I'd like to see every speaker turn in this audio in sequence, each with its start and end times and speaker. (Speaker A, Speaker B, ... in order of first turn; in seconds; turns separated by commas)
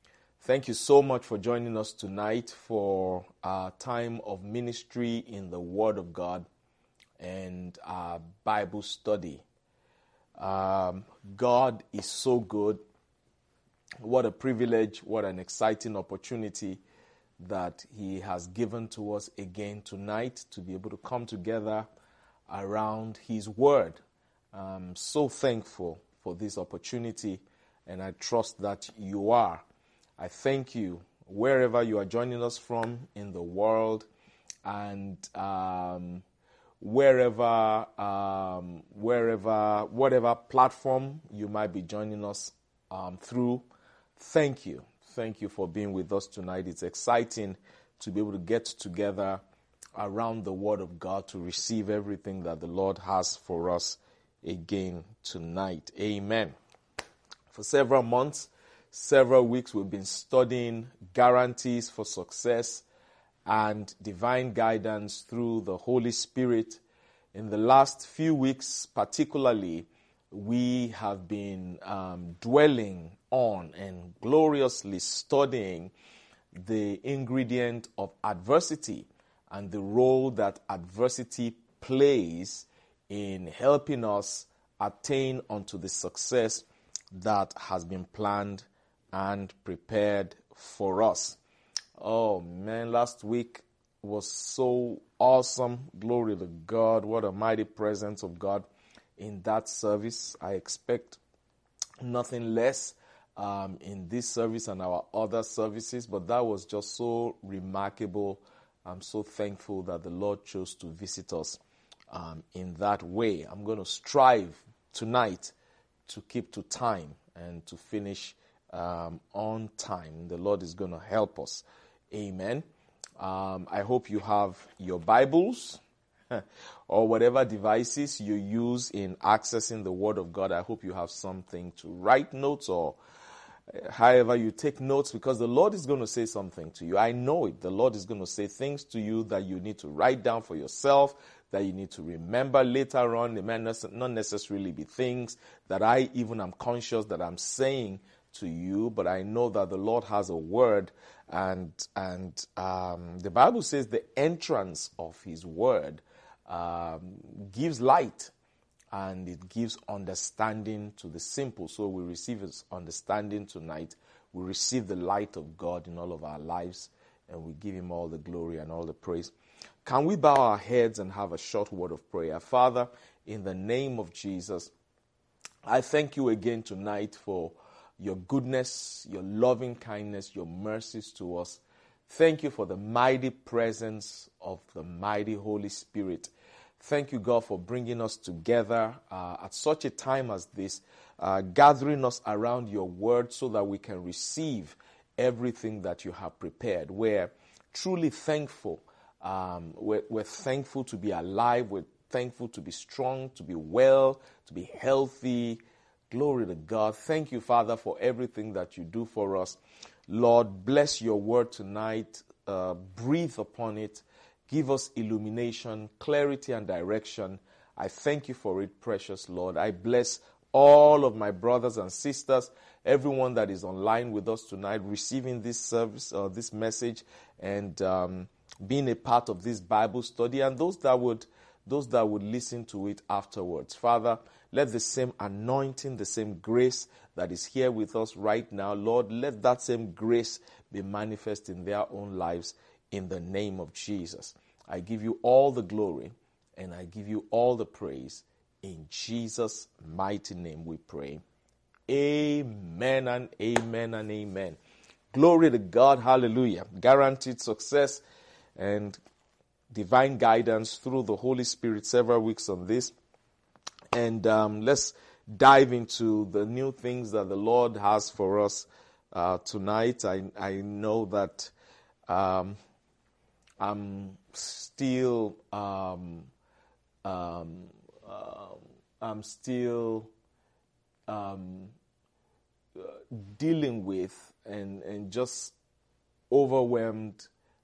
Speaker A: 0.4-6.5, Speaker A: 7.2-9.4, Speaker A: 10.4-12.8, Speaker A: 14.0-16.8, Speaker A: 17.4-21.9, Speaker A: 22.5-24.0, Speaker A: 24.5-29.6, Speaker A: 30.2-34.1, Speaker A: 34.6-36.2, Speaker A: 36.8-43.6, Speaker A: 44.2-49.4, Speaker A: 50.0-56.5, Speaker A: 57.5-62.8, Speaker A: 63.5-66.8, Speaker A: 67.3-75.9, Speaker A: 76.6-91.4, Speaker A: 92.0-98.7, Speaker A: 99.2-101.2, Speaker A: 102.0-111.6, Speaker A: 112.1-115.5, Speaker A: 116.1-122.7, Speaker A: 123.2-125.8, Speaker A: 126.3-133.0, Speaker A: 133.8-158.3, Speaker A: 158.9-169.3, Speaker A: 169.8-174.7, Speaker A: 175.7-205.6, Speaker A: 206.1-209.6, Speaker A: 210.1-251.2, Speaker A: 251.9-254.6, Speaker A: 255.1-258.0, Speaker A: 258.6-259.0, Speaker A: 259.7-262.9, Speaker A: 263.9-271.5, Speaker A: 272.1-272.6, Speaker A: 273.6-276.3, Speaker A: 277.1-280.1, Speaker A: 281.1-281.7, Speaker A: 282.8-285.5, Speaker A: 286.3-287.3